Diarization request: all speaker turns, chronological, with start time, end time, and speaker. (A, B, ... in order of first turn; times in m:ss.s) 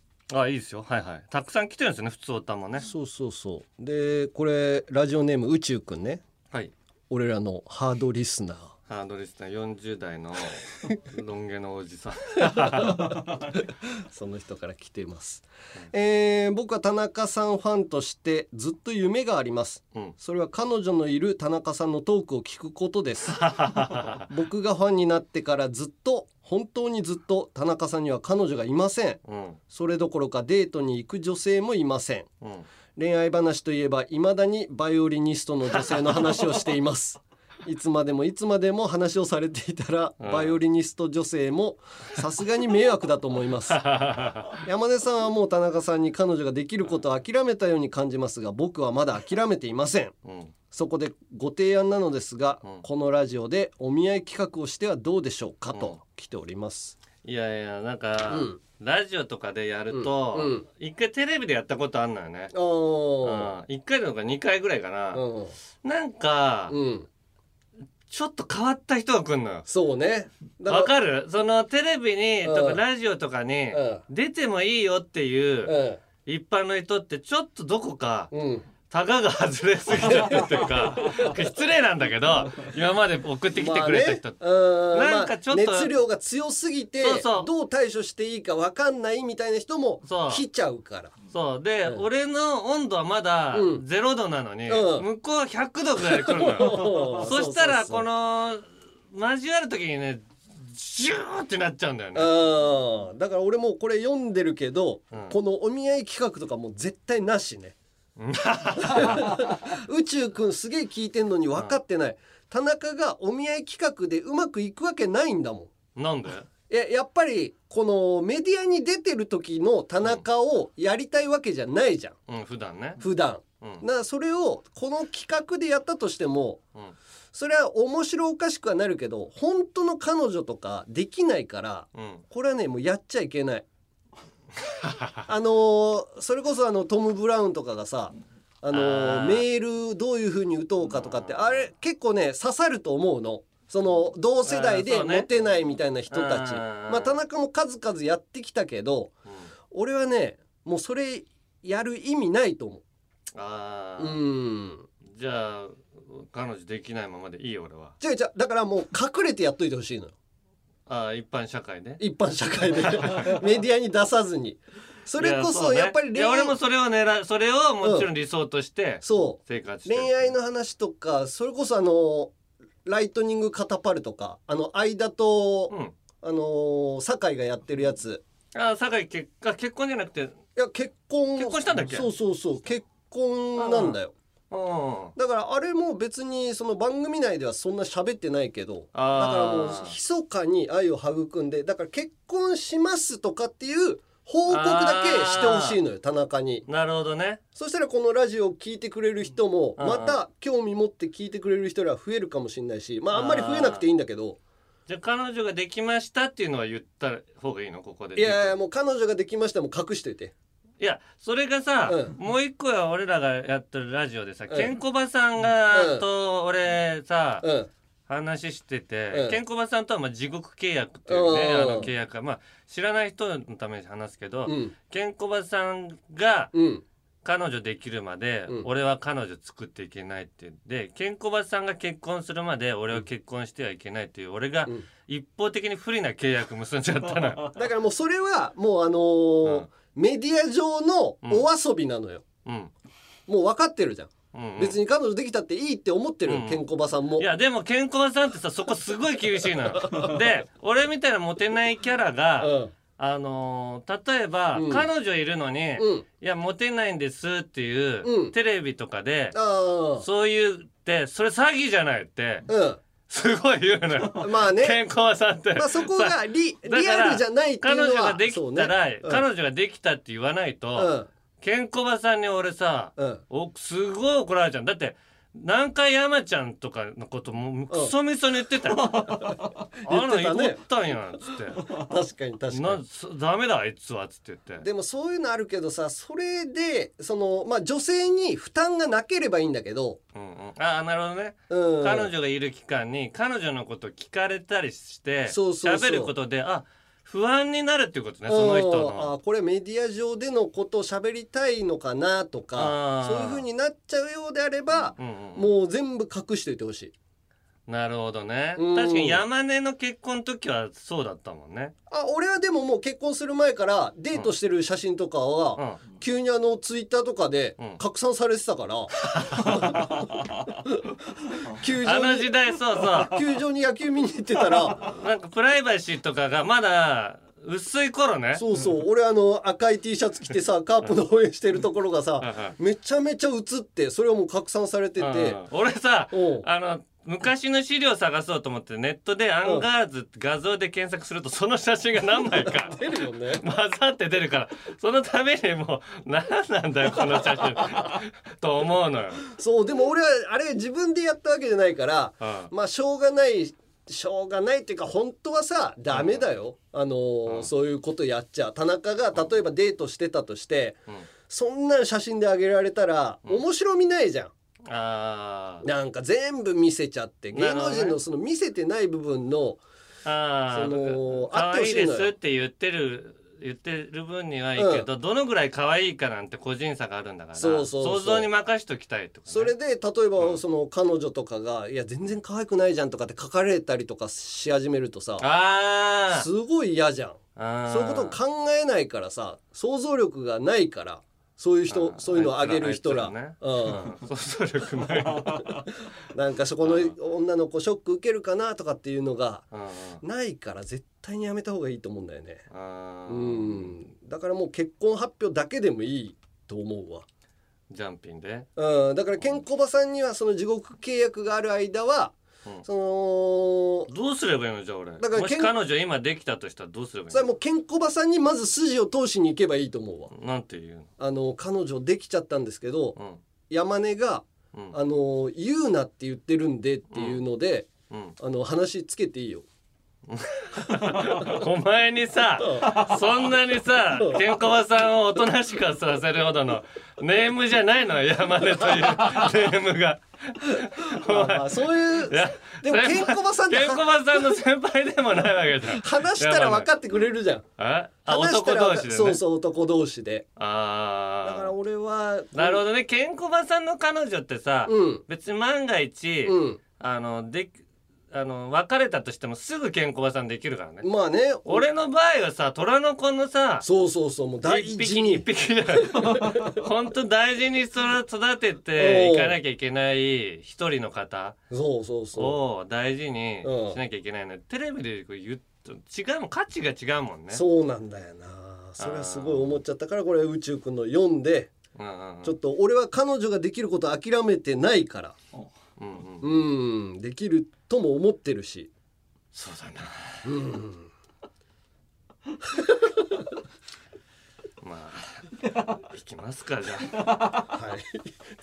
0:00.3-0:02.9 A
0:02.8-0:06.2 B
0:07.1-0:08.7 B
0:08.9-0:13.1 A
0:12.4-0:23.4 B
0:23.4-0:24.3 A
0:24.3-0:29.2 B
0:29.2-0:29.6 A
0:29.7-0:32.3 B
0:33.0-0:43.8 B
0:35.7-0:36.3 A
0:40.2-0:40.6 A
0:43.7-0:44.6 A
0:44.6-0:50.1 B
0:50.2-0:50.5 A
0:50.7-0:57.0 B
0:57.2-1:02.5 A
0:58.3-0:58.6 B
0:59.9-1:00.7 B
1:02.5-1:03.5 B
1:03.2-1:05.2 A
1:05.1-1:05.5 B
1:05.8-1:06.8 A
1:06.7-1:07.1 B
1:08.1-1:09.7 A
1:09.7-1:10.9 B
1:10.7-1:18.3 A
1:12.4-1:12.8 B
1:13.7-1:14.0 B
1:15.6-1:16.0 B
1:18.3-1:18.7 B
1:18.9-1:24.4 A
1:20.0-1:21.3 B
1:23.6-1:31.1 B
1:24.9-1:25.9 A
1:27.0-1:27.5 A
1:30.0-1:30.4 A
1:31.3-1:42.5 A
1:33.5-1:33.8 B
1:34.7-1:35.1 B
1:36.0-1:38.1 B
1:42.2-1:47.8 B
1:48.2-1:49.4 A
1:48.8-1:55.7 B
1:56.0-1:56.5 A
1:56.7-2:02.2 B
2:02.3-2:03.0 A
2:03.0-2:06.6 B
2:07.3-2:13.6 B
2:12.0-2:12.2 A
2:14.7-2:15.2 A
2:15.3-2:29.1 B
2:18.7-2:19.4 A
2:20.9-2:21.7 A
2:24.4-2:25.3 A
2:26.1-2:27.2 A
2:29.7-2:32.8 B
2:33.4-2:34.2 A
2:34.0-2:34.9 B
2:35.0-2:38.0 A
2:38.0-2:40.1 B
2:40.9-2:42.0 A
2:42.0-2:46.6 B
2:42.9-2:43.4 A
2:45.2-2:50.3 A
2:47.8-2:48.1 B
2:49.0-2:52.3 B
2:52.8-2:58.2 B
2:58.5-3:00.4 A
3:00.6-3:04.1 B
3:01.4-3:02.1 A
3:03.6-3:04.0 A
3:04.5-3:05.1 A
3:05.2-3:16.7 B
3:08.9-3:10.0 A
3:14.5-3:15.8 A
3:16.7-3:17.4 A
3:17.6-3:24.4 B
3:19.8-3:20.2 A
3:23.1-3:23.8 A
3:24.9-3:28.6 A
3:28.2-3:30.3 B
3:30.8-3:37.5 A
3:31.8-3:32.1 B
3:34.5-3:34.7 B
3:35.7-3:36.1 B
3:37.4-3:37.7 B
3:38.1-3:46.5 A
3:39.1-3:39.4 B
3:41.1-3:41.9 B
3:44.5-3:44.7 B
3:46.5-3:46.8 B
3:47.2-3:57.6 A
3:57.6-4:02.2 B
4:02.4-4:02.7 A
4:03.3-4:07.3 B
4:04.3-4:04.8 A
4:06.3-4:06.6 A
4:07.2-4:19.4 A
4:12.4-4:12.7 B
4:14.5-4:14.9 B
4:15.8-4:16.0 B
4:18.0-4:18.4 B
4:19.3-4:20.1 B
4:20.0-4:22.5 A
4:22.5-4:22.8 B
4:23.1-4:39.3 A
4:24.1-4:24.8 B
4:25.6-4:29.2 B
4:30.8-4:31.1 B
4:33.0-4:33.2 B
4:38.9-4:40.6 B
4:39.9-4:41.7 A
4:41.7-4:42.8 B
4:42.5-4:44.6 A
4:44.6-4:50.0 B
4:50.2-4:59.1 A
4:51.5-4:52.1 B
4:55.3-4:56.1 B
4:58.3-5:06.9 B
5:02.6-5:03.4 A
5:05.0-5:05.5 A
5:07.7-5:11.7 A
5:08.6-5:09.2 B
5:11.9-5:22.3 B
5:15.6-5:15.8 A
5:19.3-5:19.6 A
5:21.8-5:23.2 A
5:22.9-5:24.9 B
5:24.8-5:28.4 A
5:28.3-5:35.4 B
5:32.2-5:32.6 A
5:35.0-5:42.8 A
5:36.1-5:36.5 B
5:42.3-5:43.4 B
5:43.3-5:49.2 A
5:49.2-6:04.3 B
5:52.2-5:52.5 A
5:55.9-5:56.2 A
6:04.7-6:05.7 A
6:05.6-6:09.6 B
6:07.3-6:08.0 A
6:10.0-6:19.5 A
6:10.5-6:12.1 B
6:14.6-6:14.9 B
6:17.4-6:18.3 B
6:19.3-6:25.3 B
6:25.2-6:26.3 A
6:26.1-6:33.9 B
6:27.4-6:28.2 A
6:31.7-6:35.6 A
6:35.2-6:39.5 B
6:36.6-6:36.9 A
6:39.5-6:40.0 A
6:40.0-6:42.4 B
6:42.5-6:43.8 A
6:43.1-6:47.1 B
6:47.7-6:48.5 A
6:48.6-6:53.9 B
6:53.9-6:57.3 A
6:55.0-6:55.6 B
6:57.1-7:00.1 B
7:00.1-7:00.9 A
7:01.0-7:03.0 B
7:03.0-7:03.2 A
7:03.5-7:09.5 B
7:06.9-7:07.2 A
7:07.9-7:08.2 A
7:10.1-7:26.7 A
7:12.4-7:12.9 B
7:20.9-7:24.2 B
7:25.7-7:27.5 B
7:27.6-7:29.2 A
7:28.1-7:30.3 B
7:30.4-7:31.5 A
7:31.2-7:32.6 B
7:32.3-7:37.6 A
7:34.7-7:35.0 B
7:36.2-7:36.6 B
7:38.1-7:40.9 A
7:40.8-7:41.6 B
7:41.5-7:43.7 A
7:43.6-7:46.6 B
7:44.4-7:51.4 A
7:48.8-7:49.4 B
7:51.5-7:52.4 B
7:52.2-7:57.4 A
7:53.4-7:53.8 B
7:57.3-8:01.5 B
7:58.8-7:59.6 A
8:01.8-8:02.3 A
8:02.2-8:05.2 B
8:05.8-8:06.3 A
8:06.2-8:08.7 B
8:09.3-8:10.2 A
8:10.2-8:10.9 B
8:12.4-8:13.2 B
8:14.6-8:17.1 A
8:17.4-8:18.1 B